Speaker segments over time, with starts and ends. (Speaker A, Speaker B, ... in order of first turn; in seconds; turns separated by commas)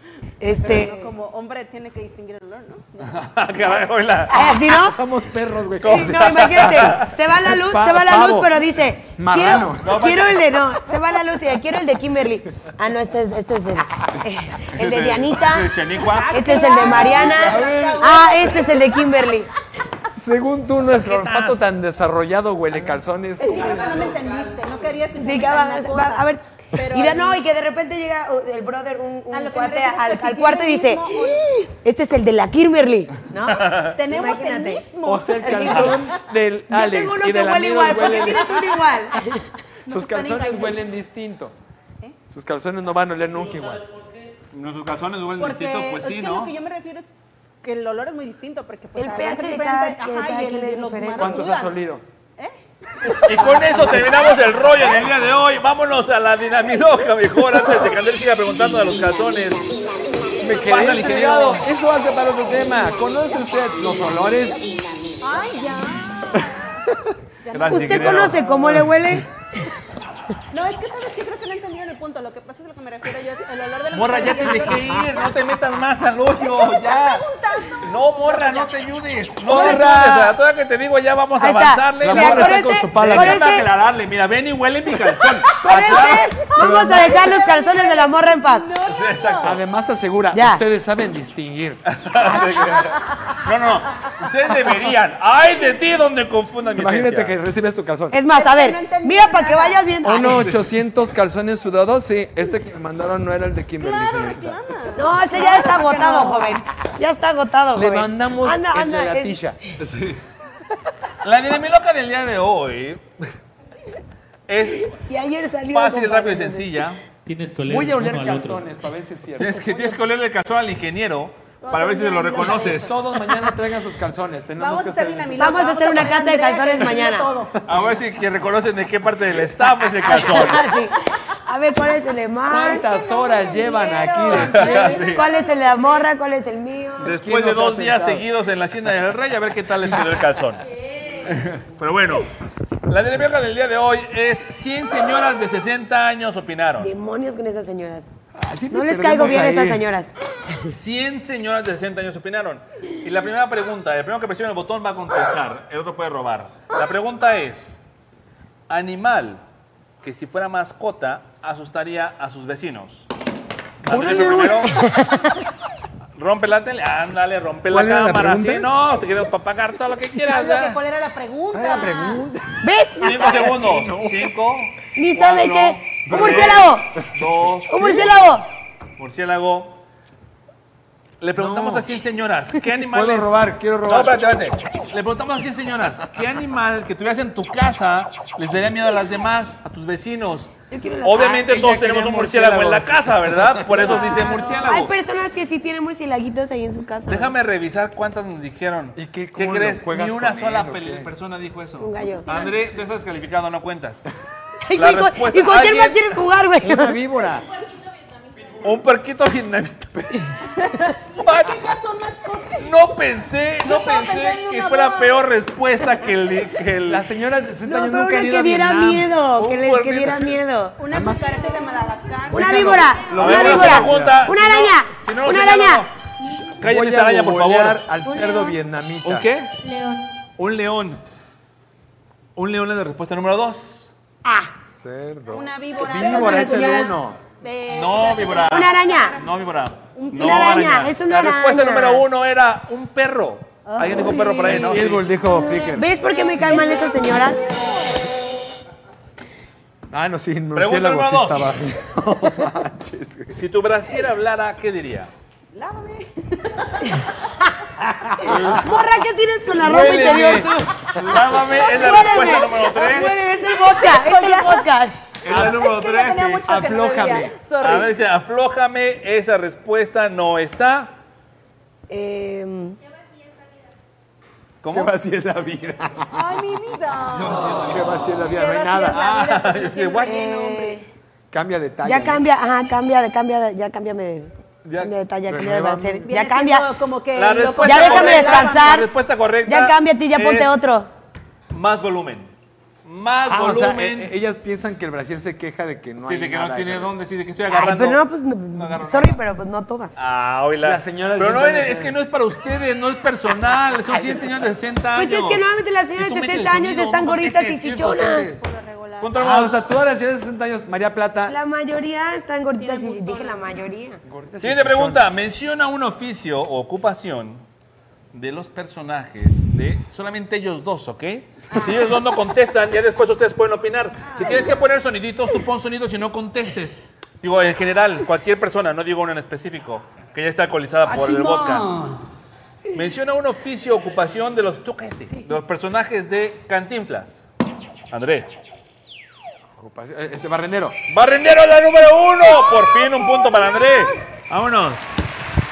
Speaker A: 0.4-1.1, Speaker B: 0.5-3.3, Speaker C: 3.0-4.3, Speaker A: 4.3-5.0, Speaker D: 4.4-8.6, Speaker C: 5.8-7.2, Speaker A: 5.8-15.7, Speaker D: 9.2-10.0, Speaker C: 9.8-10.4, Speaker C: 14.7-16.7, Speaker B: 16.0-19.1, Speaker A: 16.3-19.5, Speaker D: 16.9-18.2, Speaker D: 20.1-24.2, Speaker C: 20.9-21.6, Speaker B: 23.4-27.4, Speaker A: 25.1-34.9, Speaker B: 29.3-31.7, Speaker C: 33.5-34.0, Speaker B: 33.8-36.2, Speaker D: 35.0-38.7, Speaker A: 35.5-36.0, Speaker A: 36.7-39.5, Speaker B: 38.1-38.8, Speaker B: 39.9-40.9, Speaker D: 39.9-41.5, Speaker D: 42.3-43.8, Speaker C: 44.5-46.5, Speaker B: 45.4-47.1, Speaker B: 47.6-51.8, Speaker A: 49.0-51.4, Speaker D: 51.2-52.0, Speaker C: 53.2-59.6, Speaker A: 53.4-54.0, Speaker D: 60.4-64.8, Speaker C: 60.4-61.6, Speaker B: 65.2-66.8, Speaker B: 67.5-68.5, Speaker C: 67.5-69.2, Speaker A: 67.7-69.3, Speaker B: 70.5-75.3, Speaker C: 73.9-77.3, Speaker B: 76.4-78.7, Speaker C: 77.8-86.3, Speaker D: 79.5-80.4, Speaker A: 79.5-79.8, Speaker A: 81.4-83.7, Speaker D: 82.0-83.5, Speaker A: 85.6-88.7, Speaker B: 85.7-89.6, Speaker D: 86.6-87.2, Speaker C: 88.9-89.6, Speaker D: 89.4-92.8, Speaker A: 90.3-90.6, Speaker C: 91.9-97.4, Speaker D: 96.8-98.2, Speaker A: 98.1-100.5, Speaker B: 98.3-99.8, Speaker D: 100.0-104.6, Speaker C: 100.2-100.6, Speaker B: 103.8-106.6, Speaker A: 105.0-109.4, Speaker D: 107.7-109.6, Speaker C: 109.8-110.2, Speaker C: 111.2-113.3, Speaker C: 114.5-115.0, Speaker A: 114.8-116.8, Speaker C: 115.7-117.0, Speaker E: 117.2-118.6, Speaker D: 117.7-120.0, Speaker C: 119.4-122.9, Speaker B: 121.6-123.1, Speaker D: 122.4-125.7, Speaker B: 124.6-127.4, Speaker A: 125.4-127.3, Speaker D: 127.0-127.9, Speaker C: 127.7-130.6, Speaker A: 130.0-132.8, Speaker D: 132.5-135.1, Speaker B: 132.5-136.1, Speaker C: 134.3-135.3, Speaker A: 135.1-137.2, Speaker C: 137.0-140.6, Speaker D: 137.0-138.3, Speaker C: 141.2-142.3, Speaker C: 142.9-146.9, Speaker A: 146.8-148.1, Speaker D: 148.3-149.9, Speaker A: 148.7-150.7, Speaker C: 150.7-157.8, Speaker C: 158.7-159.4, Speaker C: 160.0-163.1, Speaker D: 163.8-164.8, Speaker C: 163.8-164.8, Speaker A: 164.7-165.2, Speaker C: 166.2-170.8, Speaker D: 167.7-168.7, Speaker B: 170.3-172.3, Speaker D: 171.5-172.6, Speaker A: 172.6-173.6, Speaker C: 173.0-178.3, Speaker D: 173.2-174.3, Speaker A: 175.0-176.9, Speaker D: 176.1-176.8, Speaker A: 177.7-178.5, Speaker C: 179.0-179.8, Speaker C: 181.2-194.9, Speaker D: 181.3-181.8, Speaker D: 182.8-184.2, Speaker A: 190.7-191.5, Speaker D: 191.2-194.1, Speaker B: 193.9-194.6, Speaker A: 194.1-197.3, Speaker C: 197.1-204.1, Speaker D: 198.9-201.1, Speaker A: 201.8-202.3, Speaker A: 204.7-207.0, Speaker C: 204.8-206.1, Speaker D: 206.6-207.5, Speaker C: 208.6-210.3, Speaker B: 210.6-212.7, Speaker C: 211.0-211.8, Speaker C: 212.6-217.1, Speaker B: 213.6-215.2, Speaker D: 216.9-219.2, Speaker A: 217.7-220.8, Speaker C: 219.3-220.4, Speaker B: 220.8-222.9, Speaker D: 220.9-221.4, Speaker D: 222.3-224.2, Speaker A: 222.3-225.9, Speaker C: 223.1-227.8, Speaker D: 226.6-229.3, Speaker A: 228.1-228.5, Speaker C: 229.0-229.5, Speaker A: 229.6-230.0, Speaker C: 230.4-231.0, Speaker C: 232.4-233.9, Speaker A: 234.2-234.5, Speaker D: 234.7-237.2, Speaker B: 235.3-239.2, Speaker A: 235.8-236.9, Speaker C: 237.7-245.1, Speaker A: 238.4-239.2, Speaker B: 239.9-240.9, Speaker A: 240.1-242.0, Speaker B: 243.7-244.8, Speaker D: 244.4-245.9, Speaker A: 245.7-247.4, Speaker B: 246.4-248.0, Speaker D: 249.9-253.4, Speaker C: 250.6-251.5, Speaker C: 253.3-255.1, Speaker B: 255.5-257.1, Speaker D: 257.8-258.6, Speaker C: 258.2-258.7, Speaker A: 258.5-260.7, Speaker D: 259.6-261.1, Speaker C: 260.9-263.2, Speaker A: 261.5-265.0, Speaker B: 262.9-264.7, Speaker C: 265.2-266.4, Speaker B: 265.2-268.0, Speaker D: 265.3-265.6, Speaker D: 266.1-267.3, Speaker C: 267.6-271.0, Speaker A: 271.9-272.8, Speaker C: 274.6-274.9, Speaker D: 274.7-276.3, Speaker B: 276.1-277.6, Speaker C: 277.1-277.8, Speaker D: 277.5-279.0, Speaker B: 278.2-280.8, Speaker C: 278.9-280.2, Speaker A: 280.0-280.9, Speaker D: 281.3-282.2, Speaker A: 281.8-286.7, Speaker C: 284.6-284.9, Speaker D: 285.3-286.1, Speaker B: 286.1-288.9, Speaker C: 287.1-290.6, Speaker A: 287.6-288.9, Speaker A: 289.5-290.9, Speaker C: 291.5-292.3, Speaker C: 292.9-294.1, Speaker D: 293.2-296.9, Speaker C: 296.0-298.0, Speaker A: 297.5-299.9, Speaker C: 298.5-299.2, Speaker C: 299.9-305.4, Speaker D: 300.6-302.0, Speaker A: 305.0-308.3, Speaker C: 306.0-308.4, Speaker B: 308.2-309.5, Speaker C: 309.0-309.5, Speaker D: 309.2-311.4, Speaker A: 311.3-314.0, Speaker B: 312.6-313.5, Speaker D: 314.0-315.1, Speaker C: 314.4-317.4, Speaker C: 318.1-331.8, Speaker B: 321.5-321.9, Speaker B: 324.0-324.6, Speaker E: 330.9-332.0, Speaker C: 332.7-337.3, Speaker C: 337.9-338.3, Speaker D: 339.6-340.8, Speaker C: 340.9-344.9